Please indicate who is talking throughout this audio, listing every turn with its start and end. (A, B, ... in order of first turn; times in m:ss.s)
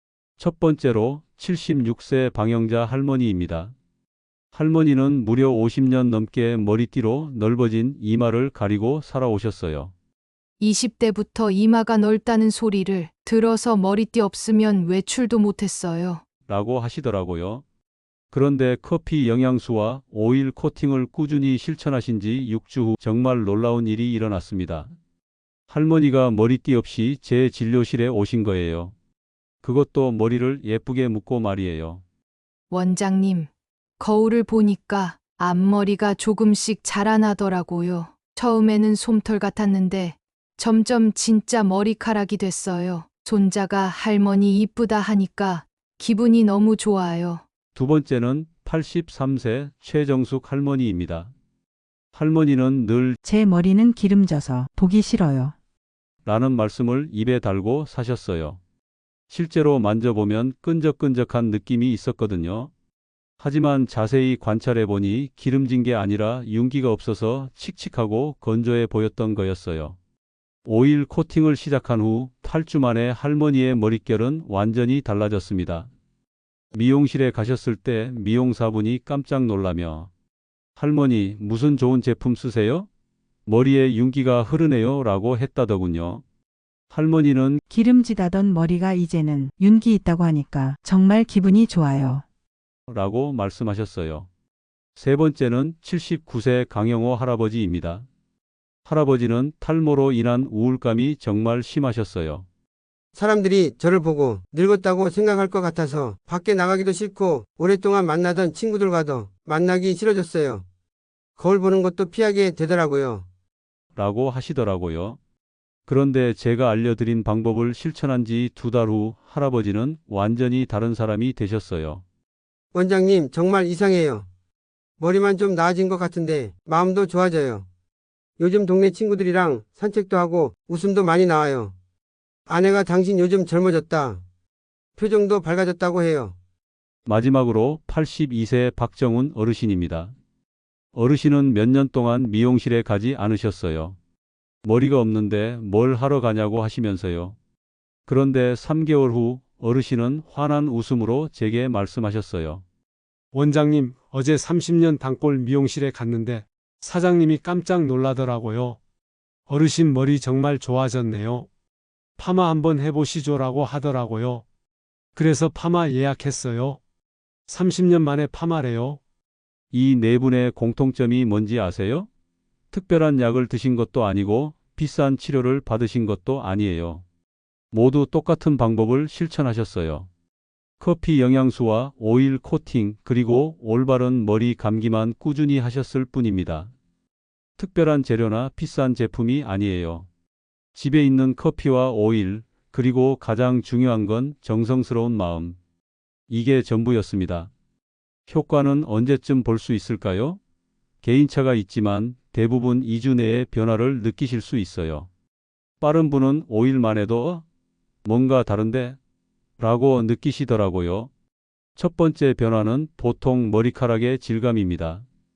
0:00.4-0:03.7 A
0:04.5-0:09.9 A
0:10.6-0:16.2 B
0:16.5-0:17.6 A
0:18.3-0:24.9 A
0:25.7-0:28.9 A
0:29.6-0:32.0 A
0:32.7-0:47.4 B
0:47.7-0:51.3 A
0:52.1-0:53.2 A
0:53.2-0:55.5 C
0:56.2-0:58.6 A
0:59.3-1:02.7 A
1:03.4-1:10.0 A
1:10.6-1:15.9 A
1:16.7-1:20.1 A
1:20.8-1:22.9 A
1:23.4-1:26.2 A
1:26.9-1:27.6 A
1:27.7-1:32.2 C
1:32.9-1:34.3 A
1:35.0-1:38.0 A
1:38.8-1:42.4 A
1:43.1-1:50.6 D
1:51.4-1:53.2 D
1:54.0-1:55.2 A
1:55.9-2:02.0 A
2:02.7-2:04.3 D
2:05.0-2:07.6 D
2:08.4-2:11.7 D
2:12.5-2:14.2 D
2:15.0-2:16.4 D
2:17.1-2:20.1 A
2:20.9-2:24.0 A
2:24.6-2:27.4 A
2:28.1-2:32.6 A
2:33.3-2:38.8 E
2:39.5-2:41.5 E
2:42.2-2:44.4 E
2:45.2-2:46.8 E
2:47.5-2:49.0 E
2:49.7-2:52.1 A
2:52.7-2:57.0 A
2:57.7-3:00.1 A
3:00.8-3:06.7 A
3:07.6-3:10.1 A
3:10.7-3:15.6 A
3:16.3-3:17.5 A
3:18.3-3:20.4 A
3:21.0-3:25.1 A
3:25.8-3:27.4 A
3:28.0-3:29.0 A
3:29.6-3:31.1 A
3:31.8-3:35.0 A